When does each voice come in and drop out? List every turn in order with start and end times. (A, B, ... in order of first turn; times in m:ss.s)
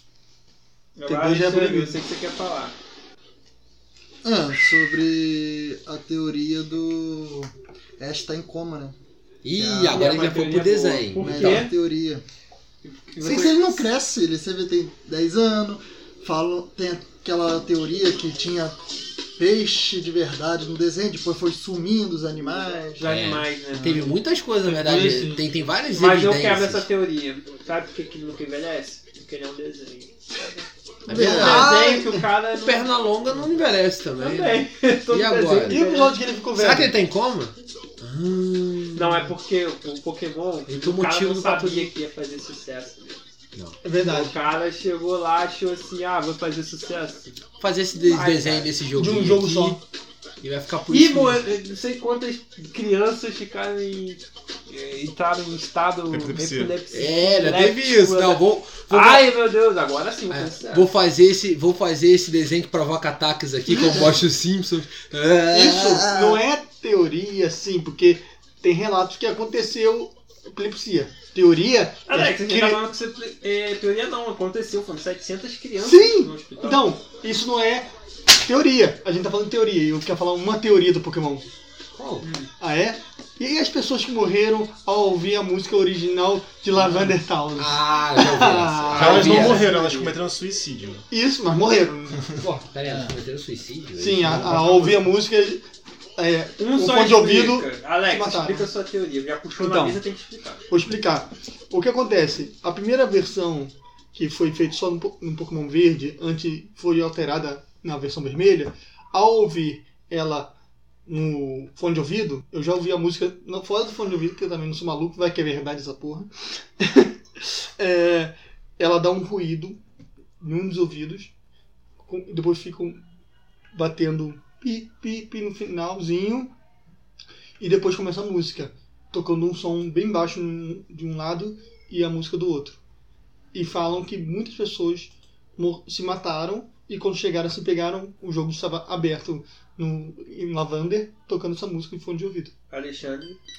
0:01.0-0:02.8 A
0:01.0-0:02.0 B
0:04.2-0:09.0 C
0:09.4-0:11.7 D
0:09.5-0:10.1 C
0:09.9-0:11.7 A
0:11.2-0:12.2 C
0:12.8-0:13.8 A
0:13.2-0:18.8 C
0:19.4-0:23.0 C
0:23.0-0:24.1 A
0:23.0-0:26.8 D
0:23.8-0:24.0 C
0:24.6-0:25.4 B
0:25.9-0:30.6 A
0:31.1-0:31.8 D
0:31.1-0:32.0 C
0:31.3-0:33.6 A
0:31.4-0:32.2 B
0:32.6-0:35.8 D
0:34.2-0:36.2 A
0:35.7-0:36.9 B
0:36.5-0:39.3 D
0:38.9-0:43.0 A
0:40.7-0:41.9 D
0:43.8-0:44.4 B
0:44.0-0:47.4 A
0:47.6-0:49.8 D
0:48.0-0:48.7 A
0:49.0-0:49.8 B
0:50.4-0:51.4 D
0:50.9-1:00.9 A
0:56.1-0:56.7 E
0:56.9-0:59.3 D
1:00.3-1:06.1 D
1:03.7-1:04.1 C
1:05.5-1:12.8 B
1:05.8-1:06.4 C
1:12.1-1:16.9 A
1:15.8-1:21.5 B
1:21.9-1:22.2 D
1:22.2-1:22.5 A
1:22.6-1:29.5 B
1:26.8-1:29.7 D
1:28.9-1:31.0 E
1:28.9-1:30.2 A
1:31.1-1:32.7 B
1:32.7-1:35.0 D
1:32.8-1:33.1 C
1:34.0-1:35.6 B
1:34.5-1:34.9 A
1:36.2-1:38.7 B
1:36.6-1:40.6 A
1:39.6-1:40.0 B
1:40.7-1:50.5 B
1:51.0-1:59.8 B
2:00.4-2:01.3 B
2:02.0-2:03.0 B
2:03.7-2:06.5 B
2:07.6-2:12.8 B
2:13.5-2:22.5 B
2:22.7-2:23.4 A